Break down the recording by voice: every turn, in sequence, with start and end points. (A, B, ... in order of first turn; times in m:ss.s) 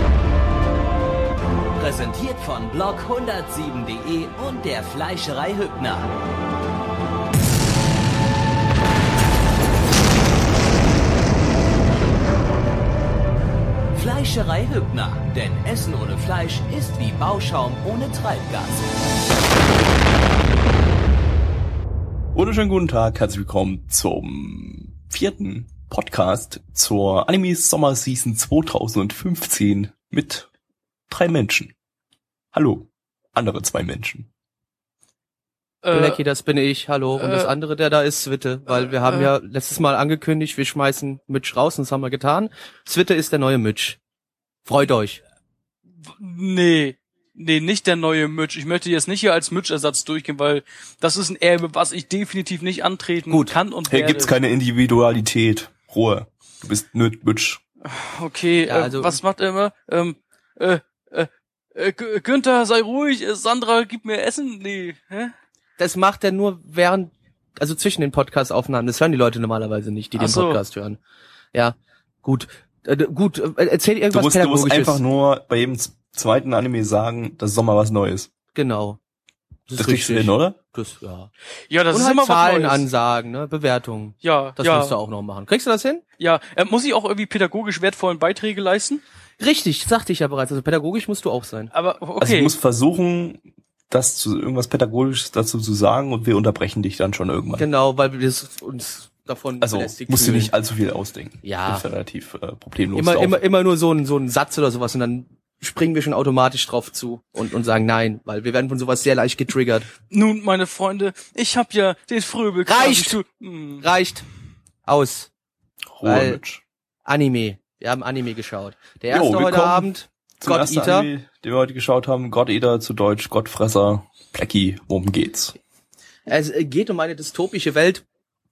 0:01.8-0:06.1 A
0:13.9-0:18.8 A
0:22.3-0:30.5 B
0:31.1-0:31.7 B
0:32.5-0:34.3 B
0:35.8-0:36.2 C
0:35.9-0:44.0 D
0:37.2-0:37.5 C
0:38.8-0:39.3 C
0:44.7-0:45.2 D
0:46.1-0:54.3 C
0:53.9-0:57.6 B
0:57.8-1:05.3 C
0:58.7-0:59.2 D
1:05.8-1:11.0 D
1:10.2-1:10.6 C
1:11.5-1:15.0 D
1:14.1-1:18.3 B
1:18.6-1:19.0 D
1:19.7-1:21.3 D
1:19.8-1:20.6 B
1:21.7-1:22.9 C
1:21.9-1:26.0 D
1:24.2-1:25.0 C
1:26.2-1:29.0 C
1:29.4-1:31.7 D
1:31.7-1:32.5 C
1:32.2-1:37.7 B
1:37.6-1:40.5 D
1:39.6-1:43.4 B
1:41.4-1:41.8 D
1:42.9-1:49.9 D
1:50.1-1:53.8 C
1:52.7-1:53.2 D
1:53.8-1:54.2 D
1:54.9-1:55.3 D
1:56.0-1:56.6 B
1:56.0-1:56.4 D
1:57.1-2:01.1 D
1:59.1-2:05.6 B
2:06.3-2:08.0 D